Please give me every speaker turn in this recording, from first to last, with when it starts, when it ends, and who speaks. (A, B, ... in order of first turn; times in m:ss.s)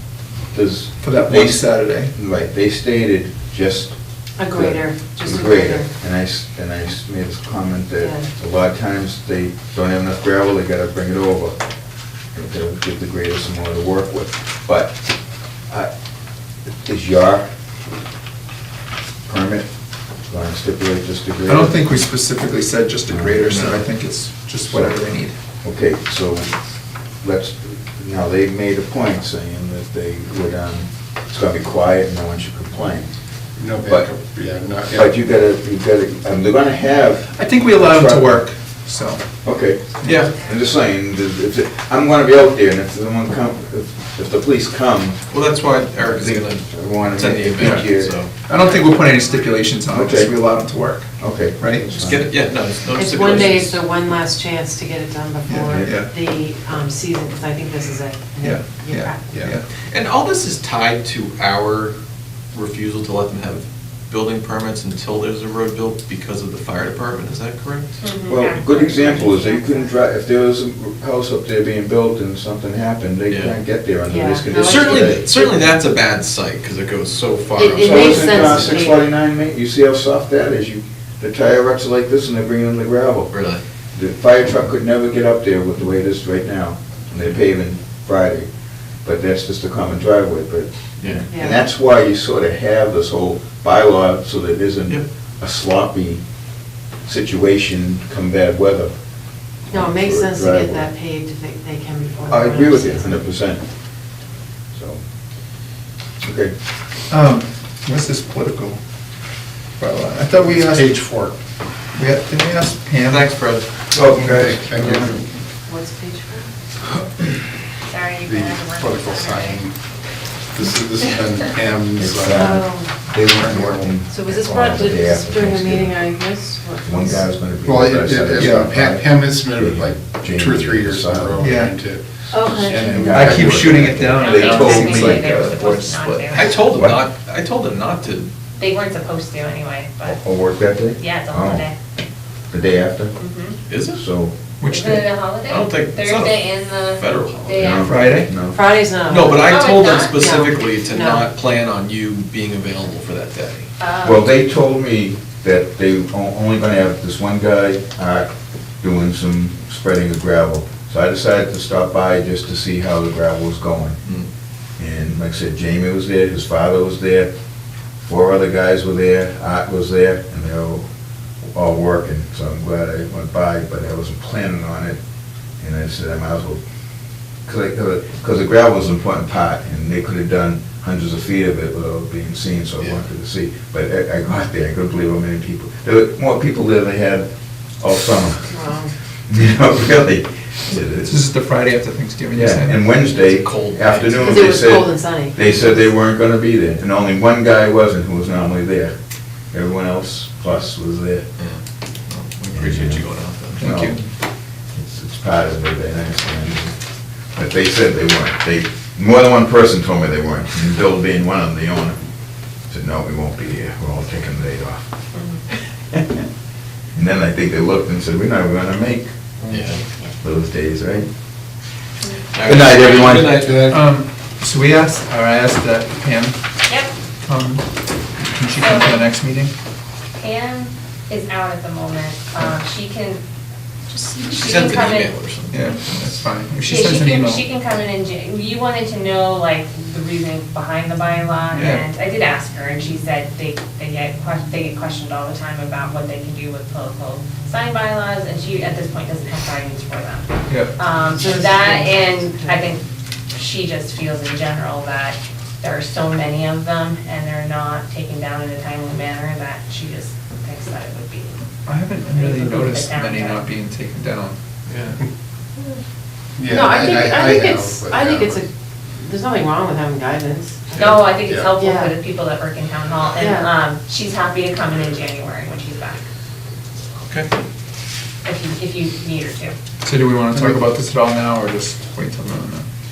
0:00.5-0:11.6 A
0:01.0-0:02.1 B
0:04.4-0:05.9 C
0:08.0-0:08.3 C
0:12.3-0:15.0 A
0:16.7-0:17.5 A
0:19.2-0:19.7 A
0:20.3-0:21.8 A
0:21.5-0:25.3 B
0:23.1-0:23.8 A
0:24.6-0:25.0 A
0:25.6-0:26.5 A
0:27.2-0:33.1 A
0:33.6-0:35.1 D
0:33.8-0:34.1 A
0:34.8-0:38.4 A
0:37.4-0:39.3 B
0:39.4-0:45.2 A
0:40.0-0:40.3 B
0:40.0-0:40.4 E
0:40.3-0:40.6 F
0:45.3-0:48.3 E
0:46.0-0:48.2 A
0:47.6-0:51.9 B
0:48.6-0:49.6 F
0:49.9-0:50.4 A
0:51.2-0:52.3 A
0:51.9-0:53.8 E
0:52.9-0:59.3 C
0:55.5-0:56.1 B
0:58.4-0:59.6 B
0:59.8-1:02.0 E
1:02.5-1:08.0 E
1:08.0-1:09.9 F
1:08.3-1:15.3 A
1:13.3-1:13.6 E
1:14.0-1:15.6 C
1:14.5-1:18.8 E
1:17.6-1:19.0 C
1:17.8-1:23.3 A
1:23.3-1:23.6 E
1:23.9-1:28.5 A
1:29.0-1:36.2 A
1:31.0-1:31.2 E
1:31.3-1:31.6 C
1:37.0-1:38.9 A
1:39.7-1:40.9 A
1:39.7-1:43.2 C
1:42.3-1:43.6 A
1:44.7-1:45.0 A
1:46.2-1:46.5 A
1:47.1-1:48.8 B
1:49.8-1:51.1 B
1:50.4-1:51.4 D
1:51.9-1:53.3 B
1:53.0-1:53.8 E
1:53.9-1:55.3 D
1:53.9-1:55.2 A
1:55.6-1:56.5 C
1:57.8-1:59.6 F
1:58.2-1:59.8 D
2:00.5-2:02.6 D
2:02.0-2:06.1 A
2:02.3-2:03.0 C
2:03.2-2:04.0 D
2:04.0-2:07.3 C
2:06.8-2:11.6 A
2:07.6-2:14.0 D
2:11.4-2:11.8 B
2:12.3-2:12.9 C
2:12.5-2:15.2 A
2:12.9-2:16.5 B
2:14.1-2:16.6 F
2:16.3-2:18.3 E
2:16.7-2:17.0 A
2:18.6-2:20.2 F
2:20.0-2:21.6 A
2:20.8-2:21.7 F
2:22.5-2:23.1 A
2:23.2-2:23.6 F
2:23.7-2:24.0 E
2:23.9-2:24.4 A
2:24.6-2:25.2 B
2:24.7-2:28.2 F
2:25.4-2:27.9 E
2:27.5-2:28.6 A
2:27.8-2:28.3 B
2:28.5-2:29.5 C
2:29.0-2:33.7 E
2:29.4-2:30.2 F
2:30.1-2:31.3 C
2:33.8-2:34.3 F
2:34.0-2:44.0 A
2:44.8-2:47.3 A
2:48.0-2:50.8 A
2:51.5-2:55.0 A
2:55.6-2:56.6 A
2:57.4-3:08.5 A
3:08.5-3:08.9 C
3:09.3-3:11.2 A
3:11.0-3:12.8 B
3:12.3-3:18.9 A
3:12.9-3:14.6 E
3:14.2-3:15.4 C
3:19.5-3:21.3 A
3:21.4-3:23.6 E
3:22.5-3:23.0 A
3:23.6-3:24.0 B
3:23.6-3:24.0 A
3:24.7-3:26.7 A
3:27.3-3:32.0 A
3:32.7-3:34.8 A
3:35.1-3:35.4 F
3:35.9-3:36.2 A
3:36.9-3:39.1 A
3:39.5-3:39.8 E
3:40.2-3:41.1 A
3:42.3-3:43.6 E
3:42.4-3:43.5 A
3:43.2-3:44.0 D
3:43.7-3:46.4 B
3:46.7-3:46.9 F
3:47.2-3:49.5 B
3:48.6-3:49.0 F
3:50.2-3:53.2 F
3:53.9-3:55.2 F
3:54.3-3:56.2 E
3:55.5-3:57.4 B
3:56.6-4:21.4 F
4:01.5-4:01.8 B
4:10.5-4:10.7 B
4:11.1-4:12.7 C
4:21.6-4:24.4 B
4:22.0-4:23.4 F
4:24.7-4:25.0 E
4:26.4-4:28.4 D
4:26.4-4:31.9 C
4:30.8-4:31.5 D
4:30.8-4:36.0 F
4:33.2-4:33.5 C
4:37.0-4:37.3 E
4:38.2-4:39.5 F
4:39.8-4:42.6 B
4:40.3-4:40.7 D